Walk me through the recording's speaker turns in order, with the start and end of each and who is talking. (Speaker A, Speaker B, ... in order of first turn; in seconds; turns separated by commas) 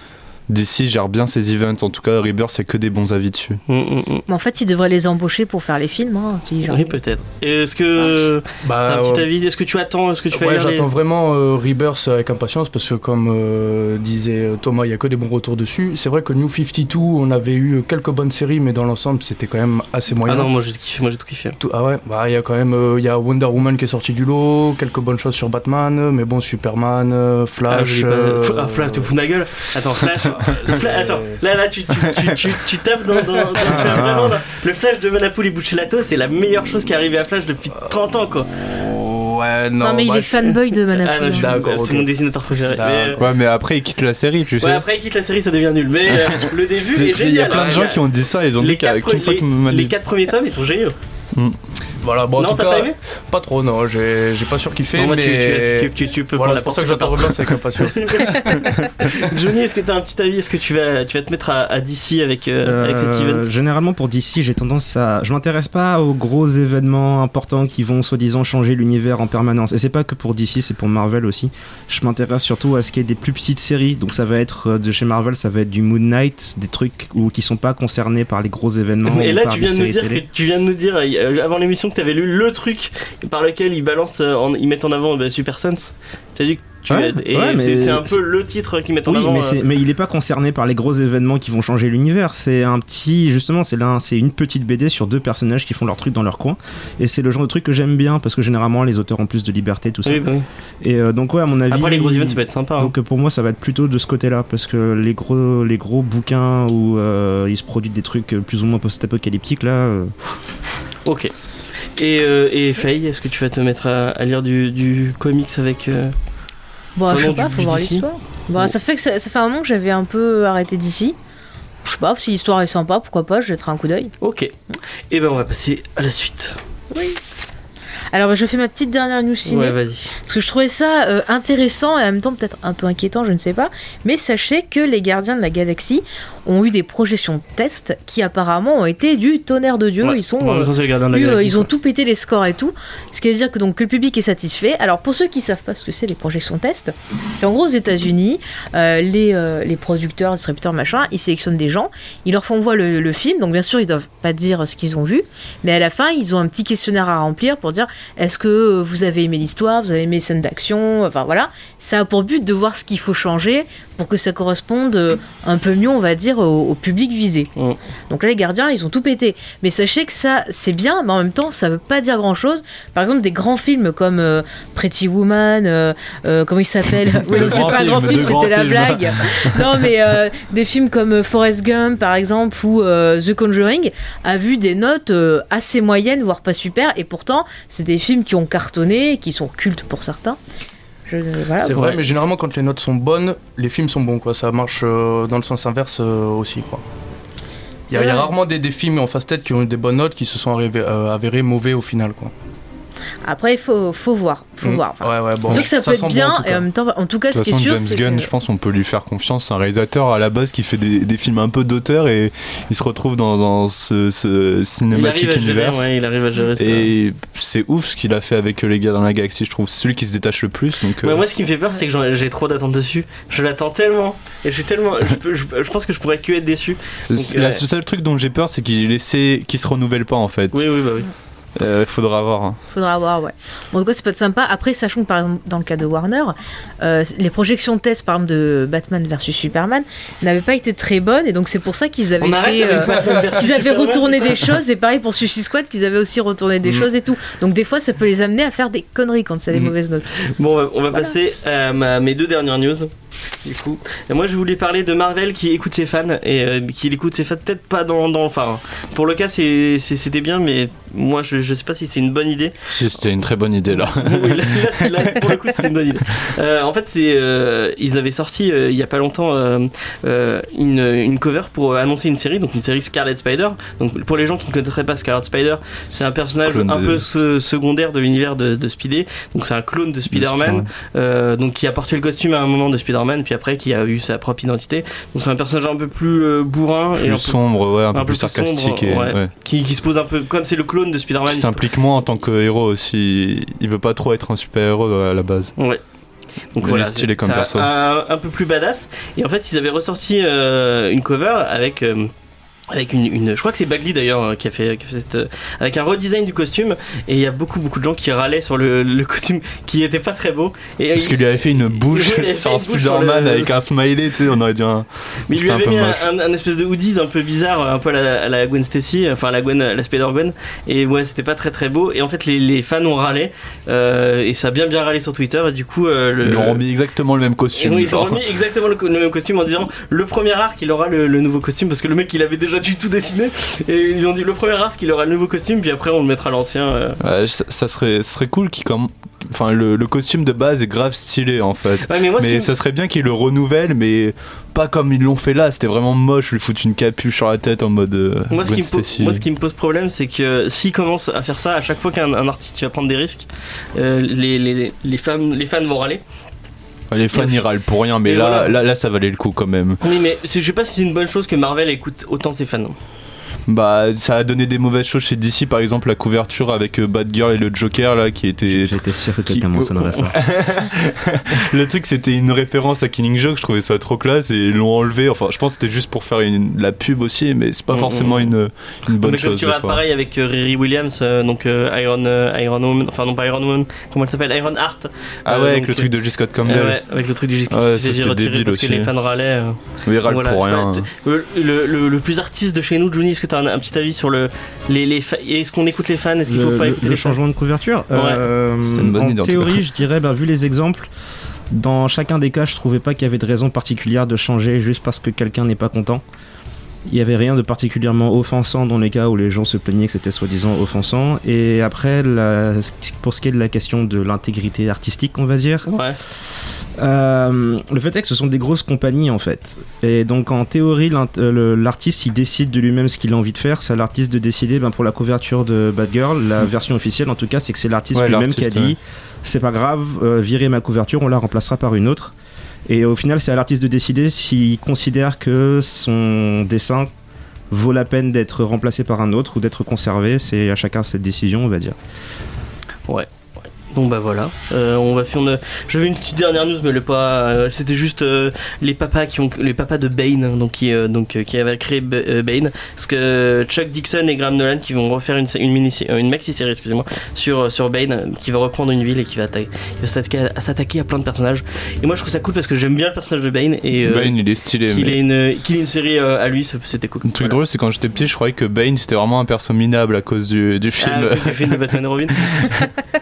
Speaker A: 0.5-3.6, Speaker B: 3.7-4.3, Speaker C: 4.3-6.9, Speaker B: 6.7-10.9, Speaker D: 8.6-9.3, Speaker D: 10.3-20.5, Speaker B: 20.3-21.6, Speaker D: 21.6-29.1, Speaker B: 27.7-38.5, Speaker D: 30.3-31.4, Speaker D: 33.4-34.0, Speaker E: 33.7-34.4, Speaker D: 38.6-40.5, Speaker C: 39.8-41.6, Speaker B: 41.0-43.2, Speaker D: 41.3-42.1, Speaker D: 42.7-43.2, Speaker A: 43.2-44.8, Speaker B: 44.6-51.0, Speaker A: 46.1-49.9, Speaker D: 52.0-59.3, Speaker B: 52.4-53.0, Speaker B: 55.0-63.5, Speaker E: 62.6-80.2, Speaker B: 79.0-89.6, Speaker E: 86.9-88.2, Speaker E: 89.1-100.3, Speaker B: 100.0-100.5, Speaker E: 100.8-110.1, Speaker B: 101.7-102.9, Speaker B: 111.0-111.3, Speaker B: 112.0-116.2, Speaker C: 117.0-121.2, Speaker B: 117.1-118.7, Speaker C: 121.8-124.1, Speaker B: 124.2-124.5, Speaker B: 125.1-126.6, Speaker C: 126.9-127.2, Speaker C: 128.1-167.5, Speaker B: 129.5-130.1, Speaker B: 140.0-141.7, Speaker C: 168.1-190.4, Speaker A: 177.3-179.6, Speaker D: 177.5-178.3, Speaker C: 191.1-192.0, Speaker D: 191.6-196.8, Speaker D: 197.9-202.3, Speaker C: 197.9-198.3, Speaker C: 203.2-208.3, Speaker D: 204.6-206.7, Speaker A: 207.3-215.9, Speaker B: 214.9-216.9, Speaker A: 216.6-221.2, Speaker B: 221.0-227.6, Speaker A: 227.1-230.7, Speaker B: 230.5-231.1, Speaker A: 231.6-232.6, Speaker C: 232.7-250.2, Speaker B: 242.2-244.5, Speaker B: 250.2-252.9, Speaker B: 253.4-262.6, Speaker A: 262.7-265.0, Speaker B: 263.9-291.7, Speaker A: 276.4-277.0, Speaker A: 280.1-280.7, Speaker A: 287.0-289.3, Speaker A: 291.3-295.5, Speaker B: 296.5-302.1, Speaker A: 296.6-297.7, Speaker B: 302.7-313.5, Speaker A: 310.9-316.0, Speaker B: 315.3-326.6, Speaker A: 326.2-328.2, Speaker B: 327.6-337.0, Speaker A: 337.0-349.2, Speaker B: 341.9-342.5, Speaker B: 348.3-356.0, Speaker A: 356.9-359.8, Speaker B: 357.1-357.4, Speaker B: 358.0-358.6, Speaker B: 359.8-362.8, Speaker A: 363.5-379.8, Speaker E: 368.5-370.3, Speaker B: 377.7-378.4, Speaker B: 379.0-385.9, Speaker A: 385.3-386.8, Speaker B: 386.4-397.2, Speaker A: 387.5-388.9, Speaker A: 389.9-390.9, Speaker E: 396.3-400.9, Speaker B: 397.9-398.2, Speaker A: 398.6-399.6, Speaker E: 401.5-406.0, Speaker E: 406.9-415.7, Speaker B: 415.7-416.0, Speaker E: 416.8-432.1, Speaker A: 427.9-428.8, Speaker E: 432.7-436.9, Speaker E: 437.5-441.8, Speaker B: 443.7-467.4, Speaker A: 463.8-465.0, Speaker A: 467.0-471.6, Speaker B: 470.8-472.5, Speaker A: 472.1-472.7